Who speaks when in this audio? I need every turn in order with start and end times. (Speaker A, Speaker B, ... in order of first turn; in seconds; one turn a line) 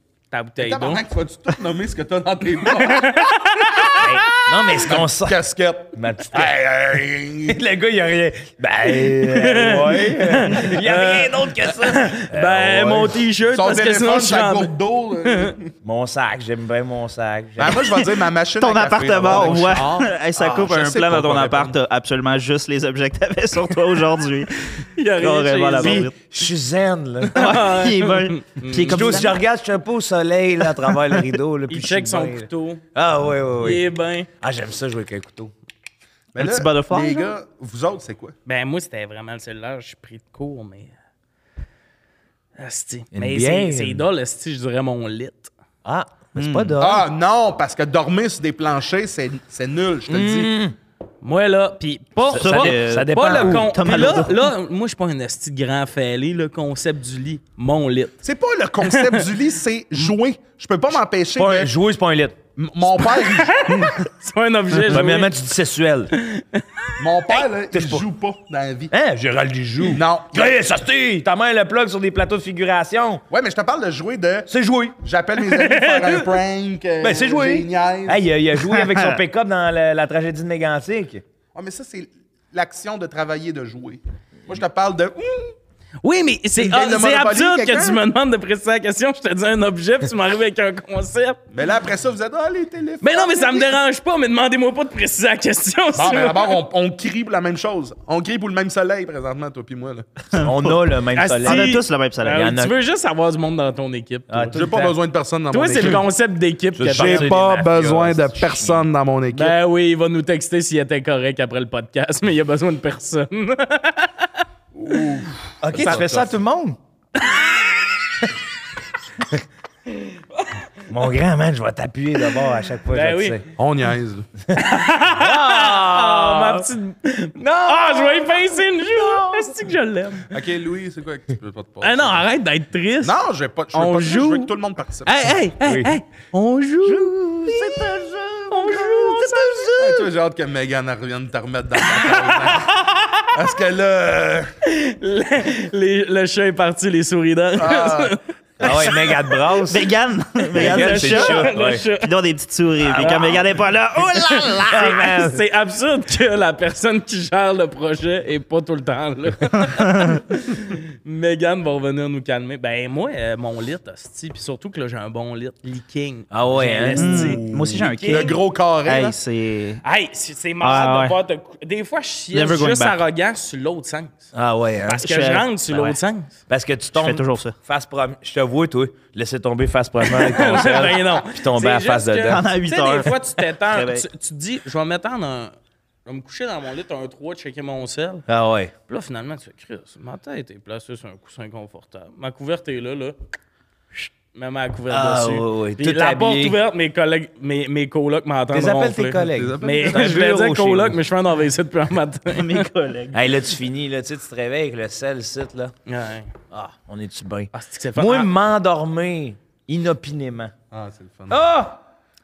Speaker A: 0.3-1.0
Speaker B: 0.6-3.9
Speaker A: 2.6-4.4
Speaker C: 4.0-5.4
Speaker B: 4.8-7.6
Speaker C: 5.9-6.5
Speaker C: 7.5-13.1
Speaker A: 8.9-14.7
Speaker B: 13.5-15.7
Speaker A: 15.2-15.5
Speaker C: 15.8-17.9
Speaker B: 17.6-21.8
Speaker D: 18.6-26.1
Speaker A: 24.9-26.1
Speaker C: 25.8-27.7
Speaker A: 27.3-29.1
Speaker D: 27.3-29.3
Speaker C: 28.8-33.8
Speaker D: 30.9-31.2
Speaker A: 31.7-32.8
Speaker A: 33.6-34.3
Speaker C: 34.4-35.5
Speaker B: 36.3-38.3
Speaker D: 36.4-37.3
Speaker A: 38.5-40.9
Speaker A: 42.6-45.5
Speaker C: 43.1-44.0
Speaker C: 45.8-47.0
Speaker D: 46.4-46.8
Speaker B: 46.8-50.5
Speaker C: 50.1-50.8
Speaker A: 51.2-58.2
Speaker C: 52.3-54.0
Speaker D: 52.3-54.5
Speaker B: 58.2-61.7
Speaker A: 58.8-59.3
Speaker C: 61.4-62.4
Speaker B: 62.5-63.9
Speaker A: 63.0-65.3
Speaker C: 64.8-66.1
Speaker A: 66.1-67.0
Speaker B: 67.0-68.9
Speaker C: 67.4-68.1
Speaker C: 68.9-73.2
Speaker B: 69.9-70.6
Speaker B: 73.3-78.2
Speaker C: 74.5-75.0
Speaker A: 75.5-76.2
Speaker C: 77.0-81.2
Speaker D: 78.5-79.2
Speaker B: 81.5-85.5
Speaker A: 86.0-91.4
Speaker B: 86.6-88.0
Speaker B: 91.5-93.8
Speaker A: 93.0-96.6
Speaker B: 95.9-100.1
Speaker D: 100.3-100.8
Speaker C: 100.4-102.7
Speaker A: 101.1-104.6
Speaker D: 101.4-102.5
Speaker C: 104.3-105.0
Speaker B: 104.5-106.0
Speaker A: 105.5-107.4
Speaker C: 106.8-108.8
Speaker B: 106.9-109.5
Speaker A: 109.3-114.4
Speaker B: 114.7-116.4
Speaker C: 115.6-116.8
Speaker A: 115.7-116.1
Speaker A: 117.2-117.8
Speaker A: 119.9-120.6
Speaker C: 120.9-123.4
Speaker A: 122.9-123.4
Speaker B: 123.6-124.3
Speaker A: 124.5-130.3
Speaker C: 125.1-126.7
Speaker C: 127.4-129.6
Speaker B: 130.3-132.2
Speaker A: 131.8-133.1
Speaker B: 133.0-135.3
Speaker A: 133.7-134.5
Speaker A: 135.1-137.8
Speaker C: 135.6-135.9
Speaker C: 136.8-139.7
Speaker A: 138.5-140.0
Speaker B: 139.8-142.8
Speaker A: 141.8-143.3
Speaker B: 143.3-144.5
Speaker A: 144.6-149.3
Speaker B: 147.6-148.2
Speaker C: 148.6-149.9
Speaker D: 149.7-155.2
Speaker A: 150.5-152.1
Speaker C: 150.5-151.8
Speaker A: 152.8-153.4
Speaker C: 154.6-155.4
Speaker A: 154.6-168.4
Speaker C: 166.3-167.3
Speaker D: 166.9-169.8
Speaker B: 167.1-169.2
Speaker A: 169.8-174.3
Speaker D: 170.6-171.2
Speaker D: 172.3-173.0
Speaker C: 174.3-176.0
Speaker A: 174.8-176.3
Speaker D: 175.0-175.5
Speaker C: 176.5-182.4
Speaker D: 176.9-177.5
Speaker A: 180.0-185.5
Speaker D: 182.3-184.1
Speaker A: 186.1-188.2
Speaker C: 188.3-188.7
Speaker A: 188.9-193.2
Speaker A: 194.0-202.7
Speaker C: 194.9-196.6
Speaker C: 198.5-201.0
Speaker B: 199.2-200.1
Speaker D: 202.3-203.2
Speaker C: 203.1-205.7
Speaker A: 205.8-206.3
Speaker C: 206.5-210.5
Speaker A: 207.5-208.3
Speaker B: 210.7-211.4
Speaker C: 211.3-211.8